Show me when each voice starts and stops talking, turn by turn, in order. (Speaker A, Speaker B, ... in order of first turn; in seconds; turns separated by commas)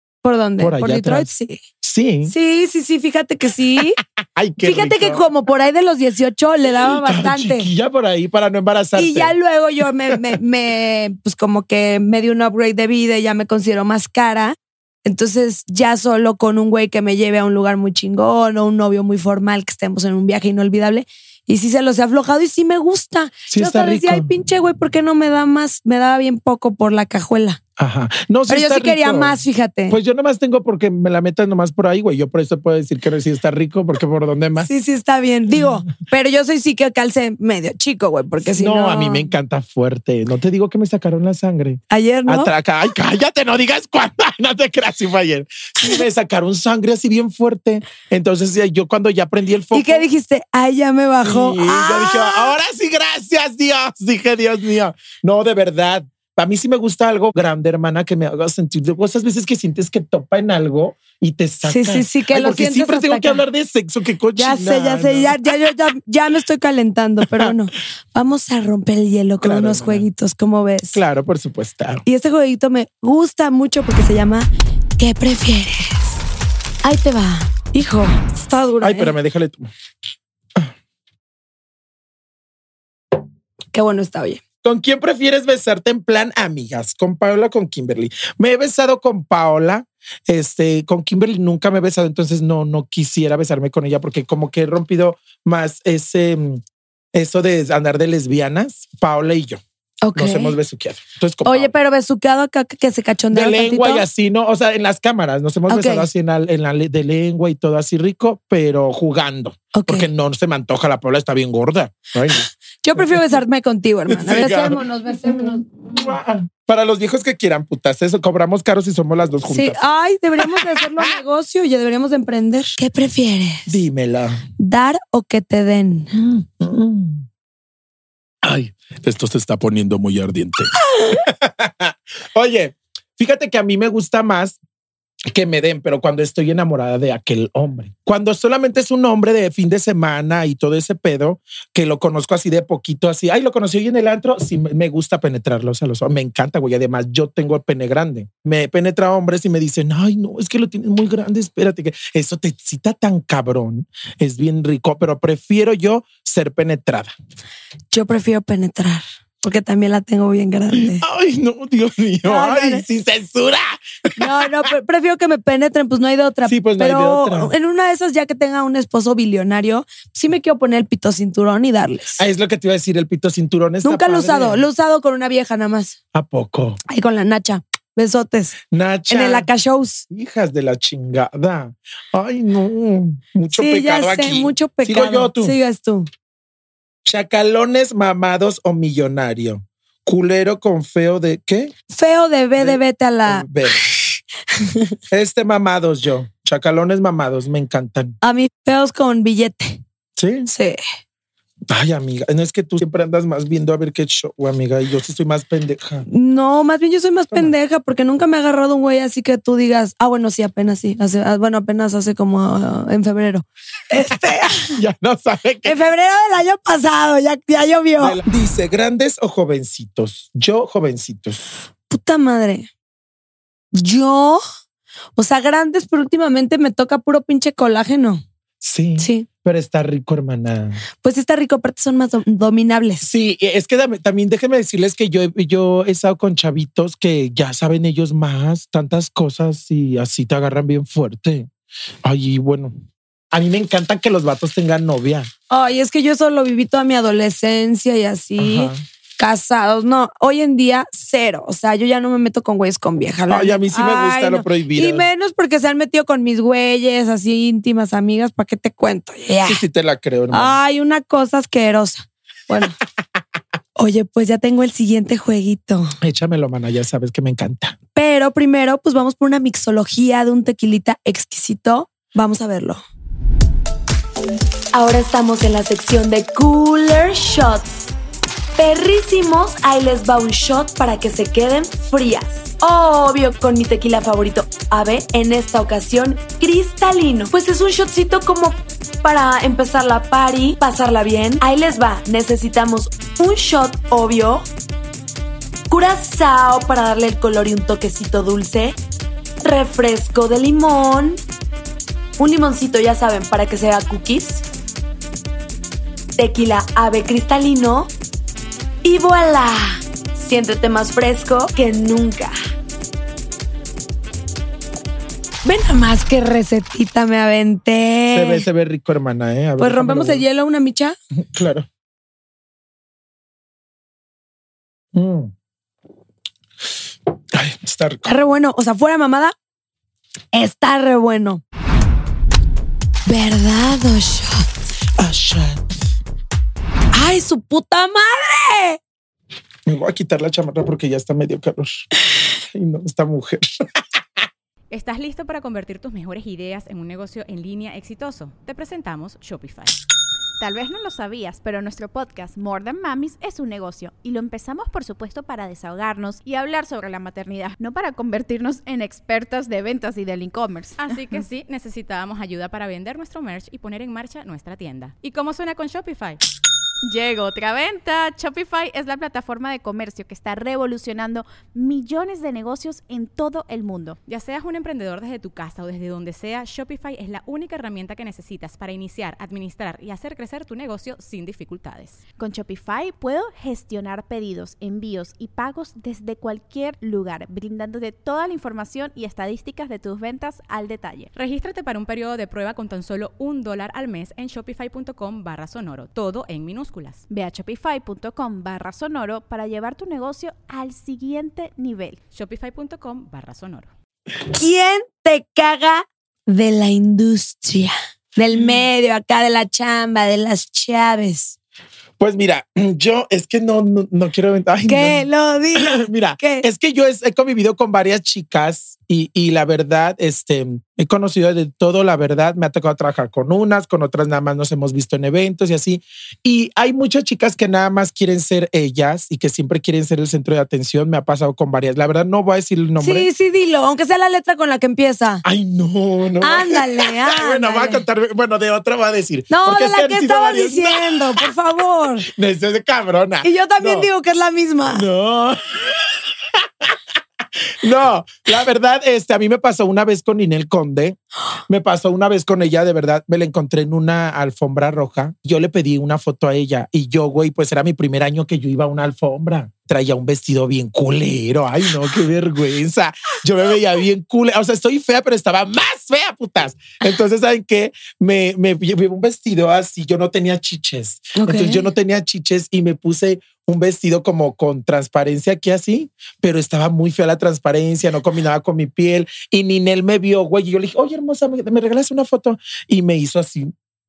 Speaker A: 0.2-1.6, Speaker B: 0.6-1.3, Speaker B: 1.8-2.3, Speaker A: 2.3-4.0, Speaker B: 4.2-5.2, Speaker A: 4.6-7.7, Speaker B: 6.8-9.3, Speaker A: 9.0-27.6, Speaker B: 23.5-24.3, Speaker B: 27.8-29.4, Speaker A: 28.5-30.0, Speaker B: 29.9-34.7, Speaker A: 34.6-39.3, Speaker B: 38.5-50.1, Speaker A: 41.9-42.5, Speaker A: 49.7-52.5, Speaker B: 51.2-65.4, Speaker A: 61.7-63.4, Speaker A: 64.4-71.0, Speaker B: 69.4-70.1, Speaker B: 70.9-72.0, Speaker A: 72.0-76.2, Speaker A: 76.8-79.1, Speaker B: 78.8-79.7, Speaker A: 83.7-84.4, Speaker B: 84.6-96.6, Speaker B: 97.1-99.6, Speaker A: 100.0-100.6, Speaker B: 100.2-101.7, Speaker A: 101.5-104.1, Speaker B: 103.3-113.3, Speaker A: 105.7-106.1, Speaker A: 109.7-110.1, Speaker A: 112.8-116.1, Speaker B: 114.1-119.8, Speaker A: 119.5-123.8, Speaker B: 120.4-121.2, Speaker B: 123.7-124.4, Speaker A: 124.6-126.2, Speaker B: 126.1-127.3, Speaker B: 128.4-134.6, Speaker B: 135.3-157.1, Speaker A: 157.9-161.0, Speaker B: 160.7-164.6, Speaker A: 162.2-162.8, Speaker A: 164.2-172.2, Speaker B: 166.5-167.5, Speaker B: 172.2-174.7, Speaker A: 173.8-176.0, Speaker B: 176.1-176.8, Speaker A: 176.9-178.6, Speaker B: 178.7-179.5, Speaker A: 179.1-180.1, Speaker B: 180.1-185.6, Speaker A: 183.5-186.1, Speaker B: 187.1-191.7, Speaker A: 191.9-193.5, Speaker B: 192.6-193.9, Speaker A: 194.6-194.9, Speaker B: 195.1-198.2, Speaker A: 198.2-199.8, Speaker B: 200.2-200.5, Speaker A: 200.5-200.8, Speaker B: 201.7-206.1, Speaker A: 206.1-214.8, Speaker B: 214.7-215.8, Speaker A: 215.7-218.2, Speaker B: 218.0-221.6, Speaker A: 221.9-222.7, Speaker A: 223.7-224.4, Speaker A: 225.2-228.2, Speaker B: 228.6-230.8, Speaker A: 229.0-229.3, Speaker A: 231.0-233.1, Speaker B: 233.0-241.5, Speaker B: 242.0-242.7, Speaker B: 243.3-245.3, Speaker A: 245.5-259.6, Speaker B: 248.4-248.8, Speaker B: 253.3-255.1, Speaker B: 259.4-260.6, Speaker A: 260.3-262.8, Speaker A: 263.8-265.9, Speaker B: 266.0-267.8, Speaker A: 268.0-272.8, Speaker A: 274.7-277.7, Speaker A: 278.6-294.5, Speaker A: 295.7-298.8, Speaker A: 299.4-301.2, Speaker A: 302.2-304.4, Speaker A: 306.2-307.9, Speaker A: 308.8-312.3, Speaker A: 315.4-318.4, Speaker B: 318.1-320.2, Speaker A: 319.6-321.0, Speaker B: 321.2-321.7, Speaker B: 324.9-325.3, Speaker B: 327.3-328.1, Speaker A: 328.1-329.3, Speaker A: 330.3-331.4, Speaker A: 333.1-334.5, Speaker B: 335.0-335.9, Speaker A: 336.9-338.8, Speaker B: 339.7-341.9, Speaker B: 342.4-344.2, Speaker C: 344.7-349.8, Speaker D: 350.4-361.2, Speaker C: 360.8-366.2, Speaker D: 366.9-374.0, Speaker C: 374.1-382.0, Speaker D: 382.2-391.1, Speaker C: 391.1-397.0, Speaker D: 397.1-402.0, Speaker C: 402.1-403.7, Speaker A: 404.3-411.4, Speaker B: 412.0-415.1, Speaker A: 414.7-416.5, Speaker B: 415.6-433.1, Speaker A: 432.8-435.2, Speaker B: 435.2-441.3, Speaker A: 436.2-437.8, Speaker A: 439.3-442.1, Speaker B: 442.0-443.9, Speaker A: 443.2-444.9, Speaker B: 444.7-446.8, Speaker B: 447.6-451.0, Speaker B: 451.5-483.5, Speaker A: 471.2-471.7